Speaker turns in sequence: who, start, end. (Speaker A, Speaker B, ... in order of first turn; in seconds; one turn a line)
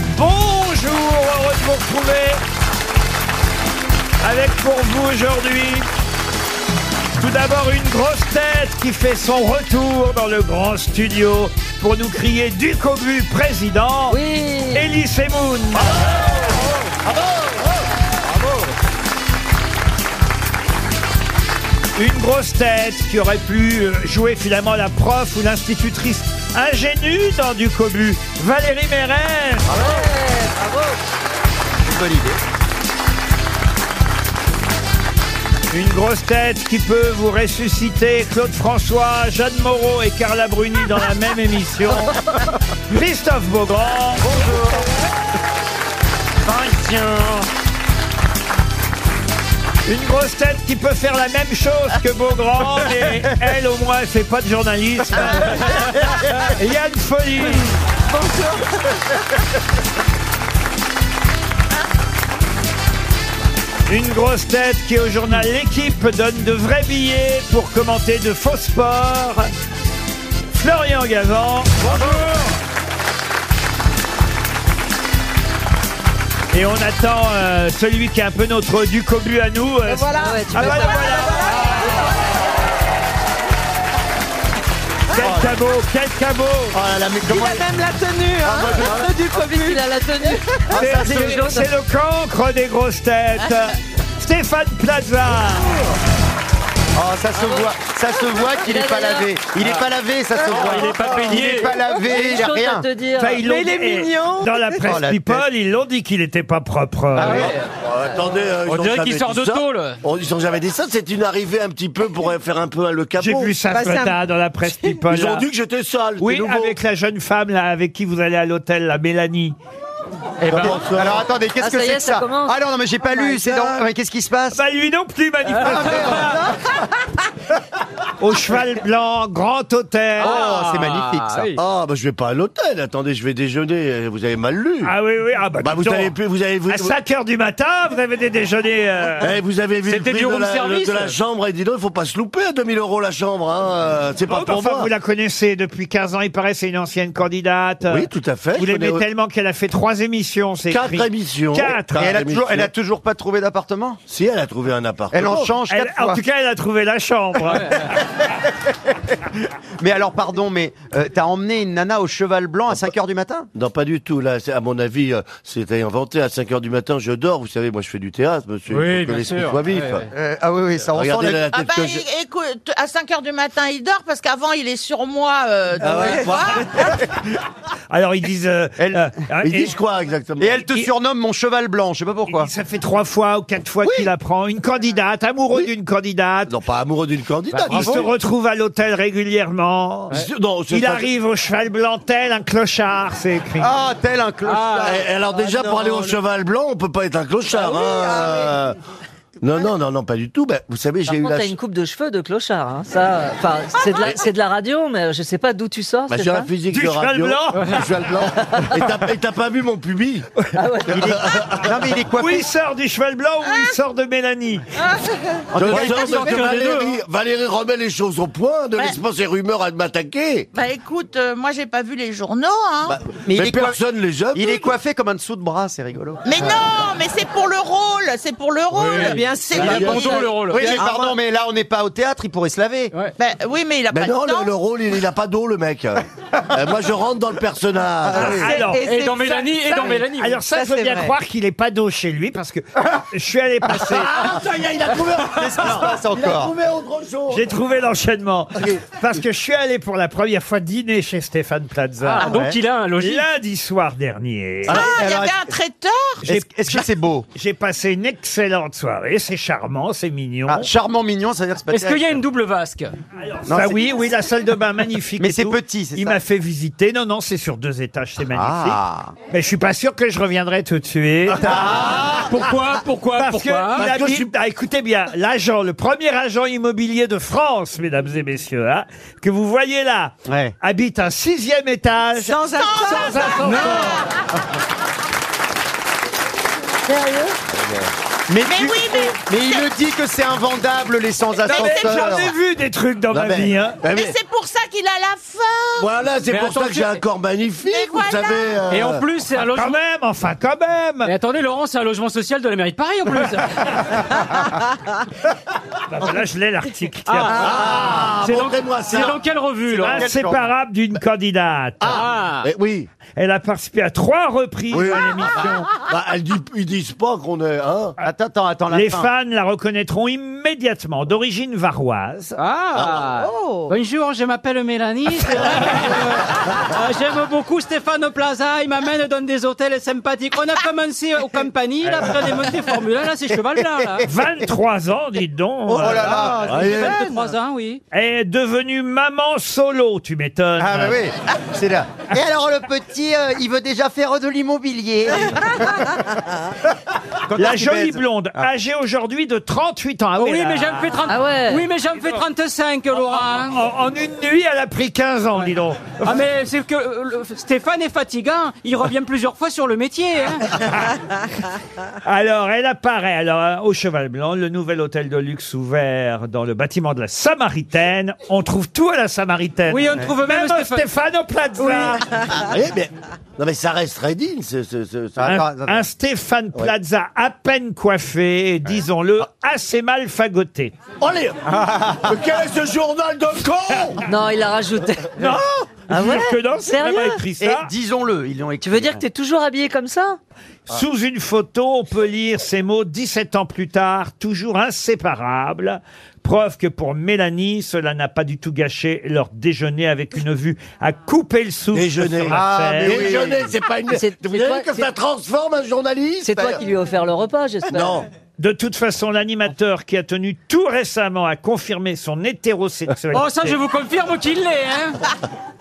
Speaker A: 0.1-2.4
Speaker A: 4.2-5.9
Speaker A: 7.2-16.2
Speaker B: 14.1-14.9
Speaker A: 21.9-29.7
Speaker C: 29.7-30.1
Speaker B: 29.7-31.0
Speaker C: 31.8-32.4
Speaker A: 35.7-42.3
Speaker A: 42.9-44.3
Speaker C: 44.2-44.9
Speaker C: 46.4-47.5
Speaker A: 49.9-57.6
Speaker D: 58.1-58.6
Speaker A: 63.9-69.5
Speaker A: 70.5-72.2
Speaker A: 76.5-82.0
Speaker D: 79.9-81.9
Speaker B: 80.2-82.1
Speaker A: 85.1-86.8
Speaker C: 85.2-85.5
Speaker C: 86.7-87.7
Speaker D: 87.2-90.4
Speaker B: 88.4-91.7
Speaker C: 88.4-89.1
Speaker C: 90.7-91.6
Speaker A: 90.7-95.8
Speaker C: 97.0-102.9
Speaker B: 97.3-97.8
Speaker B: 98.6-99.3
Speaker E: 100.5-101.7
Speaker D: 101.8-102.1
Speaker B: 102.0-103.6
Speaker A: 103.2-107.5
Speaker D: 103.3-104.8
Speaker C: 104.9-105.5
Speaker C: 107.2-107.5
Speaker E: 107.2-107.7
Speaker F: 107.8-113.5
Speaker E: 108.7-110.0
Speaker A: 113.2-115.5
Speaker D: 113.7-115.1
Speaker F: 115.0-116.8
Speaker A: 116.2-119.6
Speaker F: 120.4-121.3
Speaker C: 120.4-124.6
Speaker B: 121.6-122.6
Speaker B: 123.1-123.7
Speaker A: 124.5-126.4
Speaker C: 125.5-126.6
Speaker E: 126.1-126.4
Speaker A: 128.2-130.4
Speaker C: 130.2-131.5
Speaker E: 130.2-131.6
Speaker F: 131.6-134.9
Speaker A: 134.8-136.2
Speaker F: 135.6-137.0
Speaker A: 136.7-139.4
Speaker F: 139.2-144.9
Speaker E: 139.8-141.2
Speaker A: 144.3-152.1
Speaker F: 147.9-149.1
Speaker F: 150.7-152.7
Speaker C: 151.9-154.0
Speaker F: 154.1-155.5
Speaker C: 155.1-156.2
Speaker A: 155.7-158.0
Speaker C: 159.8-163.5
Speaker F: 163.6-170.1
Speaker E: 168.7-170.0
Speaker C: 170.1-171.4
Speaker F: 170.9-172.1
Speaker G: 171.5-177.0
Speaker C: 175.8-177.2
Speaker A: 177.9-179.7
Speaker C: 178.8-179.1
Speaker F: 179.4-180.6
Speaker C: 180.4-182.5
Speaker A: 182.3-186.6
Speaker F: 186.5-188.1
Speaker E: 187.5-188.1
Speaker A: 187.7-193.7
Speaker F: 190.1-191.1
Speaker C: 193.6-195.8
Speaker E: 194.5-195.0
Speaker F: 194.8-198.8
Speaker F: 199.4-201.6
Speaker B: 201.1-206.5
Speaker F: 206.1-210.3
Speaker A: 206.7-207.9
Speaker E: 207.6-207.8
Speaker B: 208.4-208.8
Speaker B: 210.5-211.1
Speaker F: 210.9-211.8
Speaker C: 210.9-212.5
Speaker A: 212.2-214.6
Speaker G: 213.5-213.8
Speaker C: 215.5-216.5
Speaker F: 215.5-220.5
Speaker E: 215.7-217.0
Speaker G: 220.6-223.0
Speaker C: 222.9-223.8
Speaker F: 223.3-224.7
Speaker C: 224.3-226.2
Speaker G: 226.2-230.3
Speaker E: 228.7-230.9
Speaker D: 229.0-231.1
Speaker C: 229.0-233.1
Speaker F: 229.6-230.0
Speaker G: 233.1-234.5
Speaker F: 233.9-238.4
Speaker C: 238.1-238.6
Speaker D: 238.2-241.1
Speaker A: 238.2-238.9
Speaker E: 238.8-240.5
Speaker A: 240.1-244.1
Speaker F: 243.8-247.5
Speaker C: 245.3-246.5
Speaker A: 247.3-252.4
Speaker E: 252.0-253.3
Speaker C: 252.2-252.6
Speaker A: 253.0-255.0
Speaker C: 254.7-255.5
Speaker G: 254.7-256.2
Speaker A: 256.2-260.7
Speaker C: 256.2-257.3
Speaker C: 260.5-262.2
Speaker E: 261.7-262.9
Speaker A: 263.2-271.5
Speaker C: 263.5-263.8
Speaker C: 265.2-266.2
Speaker C: 268.3-269.1
Speaker C: 271.4-272.2
Speaker F: 271.5-272.2
Speaker E: 272.1-273.9
Speaker A: 273.2-284.0
Speaker F: 273.7-274.3
Speaker C: 280.3-280.6
Speaker C: 282.2-283.4
Speaker G: 282.5-284.1
Speaker E: 283.4-283.9
Speaker B: 286.9-287.4
Speaker F: 287.5-287.9
Speaker C: 288.3-292.3
Speaker G: 288.4-289.8
Speaker G: 291.4-292.3
Speaker A: 291.5-293.8
Speaker F: 293.1-294.1
Speaker G: 293.9-295.9
Speaker F: 295.8-299.1
Speaker E: 296.3-297.0
Speaker G: 297.6-298.6
Speaker E: 298.7-299.8
Speaker A: 299.5-301.1
Speaker E: 301.0-304.0
Speaker A: 305.9-307.5
Speaker E: 307.1-310.1
Speaker F: 307.3-309.2
Speaker C: 309.8-310.4
Speaker A: 309.8-312.1
Speaker F: 311.8-312.9
Speaker E: 311.9-312.5
Speaker A: 313.1-315.7
Speaker F: 314.7-318.0
Speaker C: 318.0-319.1
Speaker A: 318.7-322.4
Speaker E: 322.4-334.1
Speaker C: 323.3-323.7
Speaker A: 334.0-336.4
Speaker C: 335.7-337.0
Speaker E: 336.2-337.8
Speaker F: 336.5-337.0
Speaker A: 337.9-341.0
Speaker C: 340.6-346.2
Speaker C: 347.3-348.5
Speaker A: 347.3-350.9
Speaker E: 350.2-353.6
Speaker B: 351.1-351.7
Speaker A: 353.4-356.2
Speaker E: 356.0-360.6
Speaker A: 362.0-372.1
Speaker E: 369.7-370.9
Speaker E: 371.6-372.2
Speaker F: 372.4-375.4
Speaker C: 375.2-375.8
Speaker A: 375.2-380.7
Speaker F: 381.0-384.0
Speaker B: 384.1-387.2
Speaker A: 385.1-387.7
Speaker C: 387.4-389.0
Speaker B: 388.6-390.2
Speaker A: 390.7-403.1
Speaker F: 401.7-406.6
Speaker C: 402.3-403.5
Speaker B: 403.9-404.9
Speaker B: 406.2-408.0
Speaker F: 407.7-408.1
Speaker A: 408.4-413.6
Speaker E: 413.1-415.0